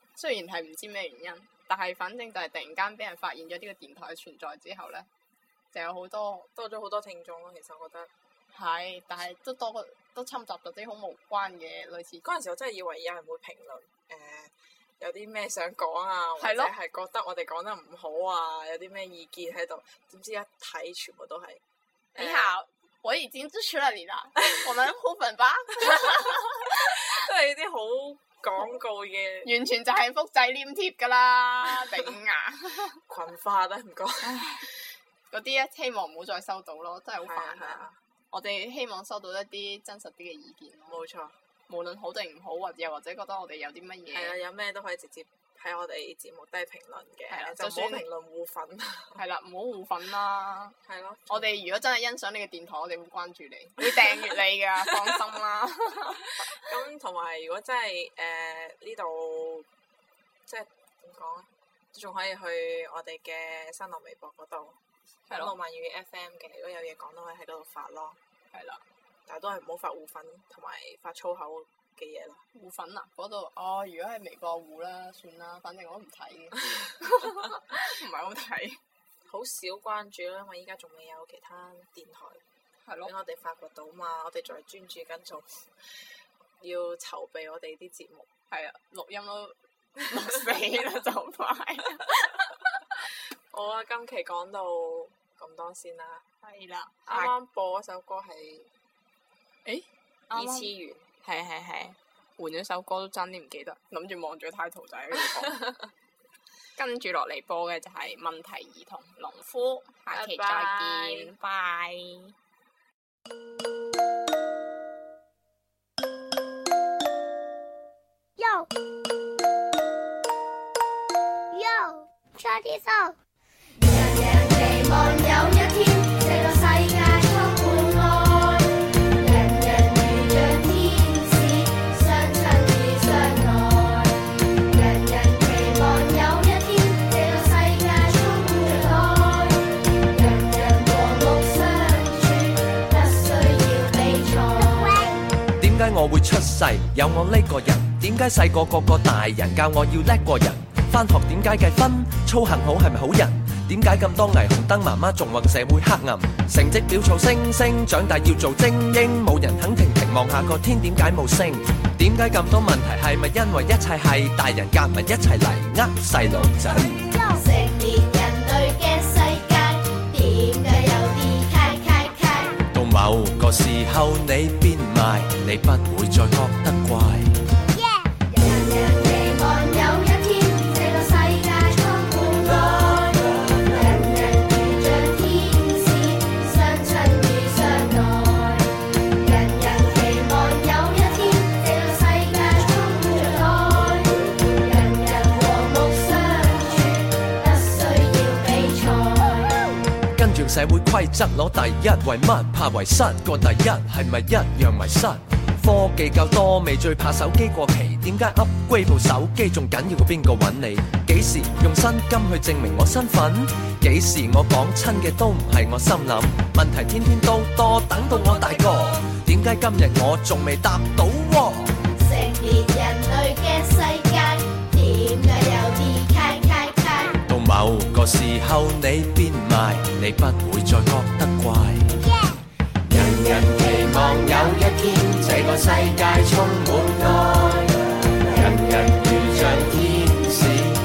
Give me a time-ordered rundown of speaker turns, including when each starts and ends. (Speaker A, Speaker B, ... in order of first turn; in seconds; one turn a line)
Speaker A: 0.2-5.1
Speaker A: 5.7-6.5
Speaker B: 6.5-8.1
Speaker A: 8.5-12.2
Speaker B: 12.2-21.6
Speaker A: 16.4-16.7
Speaker B: 22.1-22.5
Speaker A: 22.2-26.7
Speaker B: 26.0-26.2
Speaker B: 26.9-29.5
Speaker A: 29.4-33.0
Speaker B: 33.1-34.6
Speaker A: 34.3-34.6
Speaker A: 35.3-41.0
Speaker B: 37.2-38.0
Speaker B: 40.9-41.4
Speaker A: 41.7-44.4
Speaker B: 44.1-49.2
Speaker A: 47.3-48.1
Speaker A: 49.1-50.8
Speaker B: 50.9-51.6
Speaker A: 51.3-56.3
Speaker B: 53.8-54.1
Speaker B: 54.8-55.2
Speaker B: 56.4-59.7
Speaker B: 60.5-64.8
Speaker A: 65.3-65.6
Speaker B: 65.3-68.2
Speaker A: 68.5-68.8
Speaker B: 69.2-72.4
Speaker A: 72.5-78.8
Speaker B: 79.3-82.4
Speaker A: 82.8-83.1
Speaker B: 83.0-85.6
Speaker B: 86.6-88.3
Speaker A: 88.5-92.5
Speaker B: 93.5-96.2
Speaker A: 96.4-97.3
Speaker B: 97.0-98.7
Speaker A: 99.6-100.7
Speaker B: 100.3-101.0
Speaker A: 101.2-105.8
Speaker A: 106.8-112.3
Speaker B: 110.1-111.3
Speaker C: 118.4-118.7
Speaker C: 121.5-123.2
Speaker D: 123.8-134.2
Speaker D: 134.7-145.1
Speaker C: 144.5-145.2
Speaker E: 146.3-147.3
Speaker E: 148.0-156.0
Speaker E: 157.2-159.5
Speaker E: 161.3-164.5
Speaker E: 165.1-166.8
Speaker C: 166.4-167.4
Speaker D: 167.3-172.6
Speaker E: 172.7-177.2
Speaker C: 177.7-178.1
Speaker D: 178.3-199.6
Speaker E: 200.2-205.1
Speaker E: 205.6-218.2
Speaker E: 219.0-221.4
Speaker D: 222.0-227.2
Speaker E: 227.3-231.8
Speaker C: 232.0-232.3
Speaker E: 234.0-234.6
Speaker E: 239.6-239.9